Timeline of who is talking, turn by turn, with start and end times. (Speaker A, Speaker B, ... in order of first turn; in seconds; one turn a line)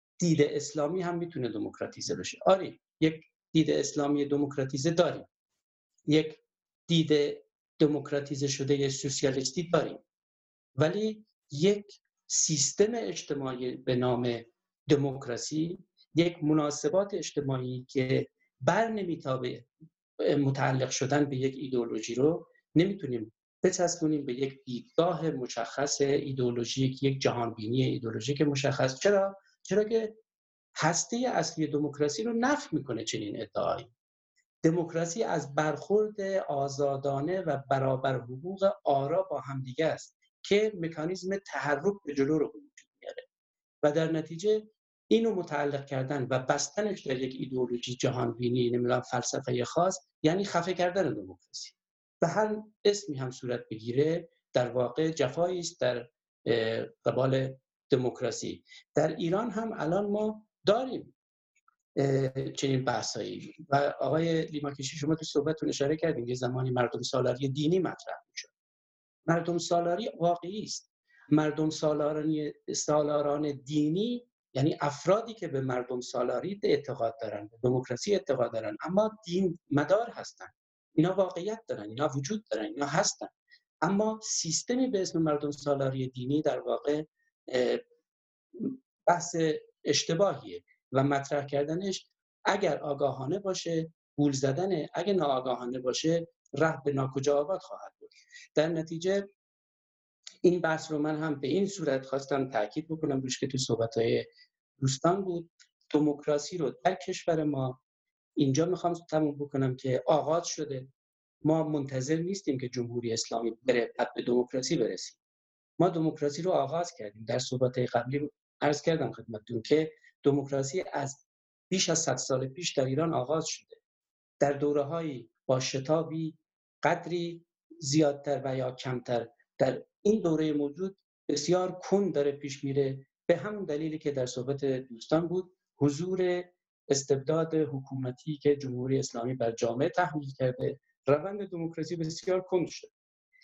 Speaker A: 0.2-5.3
Speaker A: 6.1-10.0
Speaker A: 10.8-19.7
Speaker A: 20.2-30.2
Speaker A: 30.8-33.9
Speaker A: 34.6-43.3
Speaker A: 43.8-61.1
Speaker A: 62.0-68.5
Speaker A: 69.3-87.8
Speaker A: 88.6-99.3
Speaker A: 100.4-107.8
Speaker A: 108.4-110.9
Speaker A: 111.4-115.2
Speaker A: 115.8-123.8
Speaker A: 124.4-142.9